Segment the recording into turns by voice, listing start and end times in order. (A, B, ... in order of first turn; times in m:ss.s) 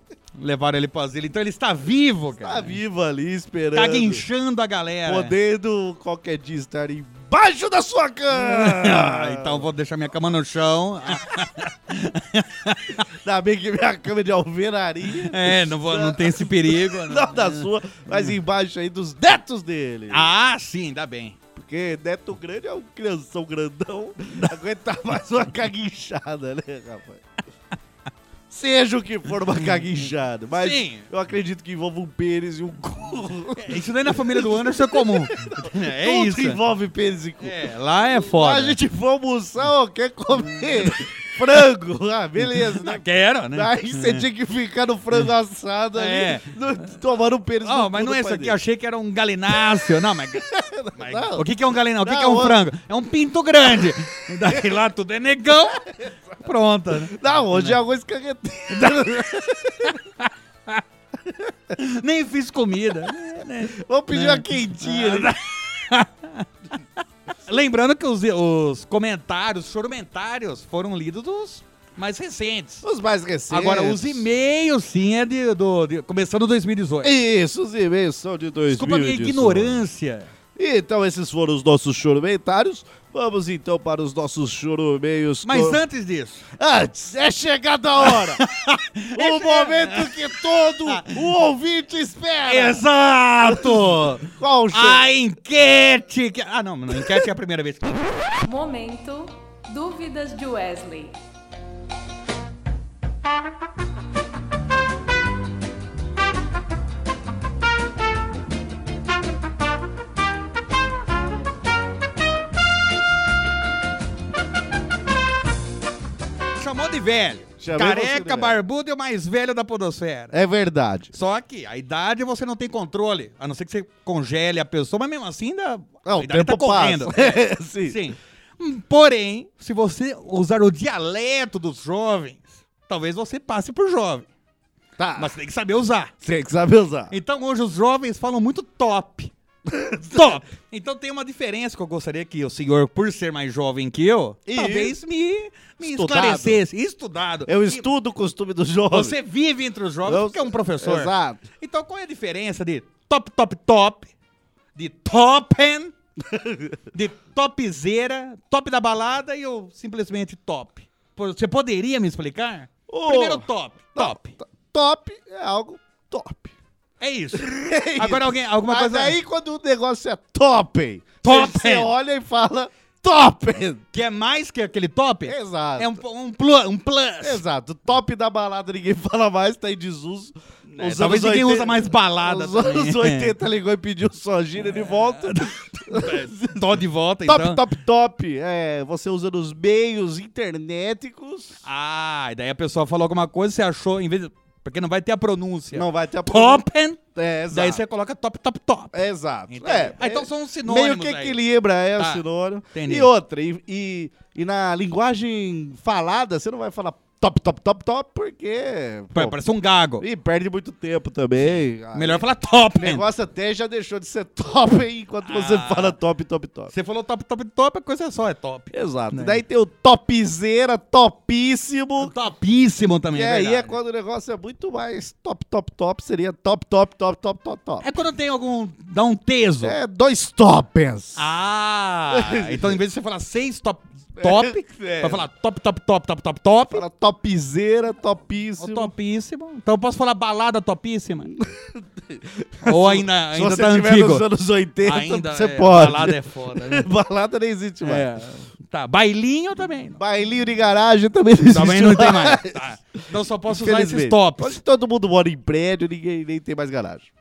0:00.4-0:02.8 A
0:02.4-0:04.2 B
0:03.7-0:05.3 A
0:05.1-0:09.7 B
0:08.3-0:13.0 A
0:13.1-0:20.3 B
0:15.1-0:18.3 A
0:20.1-0:21.4 A
0:21.6-0:27.2 B
0:28.5-0:37.6 B
0:30.5-0:31.1 A
0:33.6-0:36.6 A
0:37.4-0:38.8 A
0:38.1-0:48.6 B
0:40.4-0:41.2 A
0:42.4-0:44.2 A
0:46.0-0:46.5 A
0:47.6-0:55.9 A
0:50.5-0:51.5 B
0:52.0-0:52.6 B
0:54.4-0:54.8 B
0:55.8-0:56.4 B
0:56.4-0:57.8 A
0:57.0-1:00.0 B
0:58.7-0:59.2 A
0:59.8-1:00.8 A
1:01.3-1:01.5 B
1:01.8-1:06.5 A
1:03.7-1:05.3 B
1:07.3-1:12.8 A
1:12.8-1:14.3 B
1:13.5-1:17.1 A
1:17.0-1:19.8 B
1:18.7-1:20.3 A
1:20.6-1:25.8 B
1:25.4-1:26.4 A
1:26.6-1:28.4 B
1:28.0-1:30.2 A
1:29.2-1:32.8 B
1:30.9-1:31.2 A
1:32.5-1:38.2 A
1:33.4-1:35.0 B
1:37.0-1:37.2 B
1:38.4-1:41.2 C
1:56.6-2:00.3 A
1:57.6-1:58.6 B
2:00.3-2:01.1 B
2:01.1-2:14.3 A
2:06.0-2:08.0 B
2:15.0-2:15.3 B
2:15.2-2:16.1 A
2:16.2-2:17.1 B
2:17.1-2:19.3 A
2:19.7-2:20.4 B
2:20.1-2:27.8 A
2:24.5-2:25.0 B
2:25.8-2:26.6 B
2:27.5-2:29.2 B
2:28.9-2:34.1 A
2:30.0-2:31.4 B
2:34.8-2:35.9 A
2:36.2-2:36.8 B
2:36.9-2:44.3 A
2:42.9-2:46.6 B
2:47.0-2:49.2 A
2:47.3-2:53.8 B
2:51.2-2:51.9 A
2:53.9-2:57.4 A
2:55.3-2:56.0 B
2:57.2-3:06.7 B
3:00.7-3:03.3 A
3:04.7-3:07.6 A
3:07.3-3:11.6 B
3:11.6-3:17.0 A
3:15.7-3:16.6 B
3:17.2-3:17.8 B
3:17.5-3:19.0 A
3:18.9-3:29.4 B
3:19.5-3:21.4 A
3:22.0-3:22.2 A
3:22.7-3:23.1 A
3:29.2-3:30.0 A
3:30.0-3:32.2 B
3:31.4-3:33.0 A
3:32.8-3:36.7 B
3:35.2-3:36.0 A
3:36.7-3:39.4 A
3:38.7-3:42.1 B
3:42.0-3:43.8 A
3:43.1-3:47.8 B
3:47.8-3:49.8 A
3:49.6-3:51.2 B
3:51.2-3:56.8 A
3:52.1-3:52.8 B
3:54.2-3:55.2 B
3:56.7-3:58.9 B
3:58.6-4:01.3 A
4:01.3-4:08.1 B
4:02.6-4:04.2 A
4:04.8-4:06.9 A
4:07.8-4:10.0 A
4:10.0-4:17.1 B
4:11.5-4:14.6 A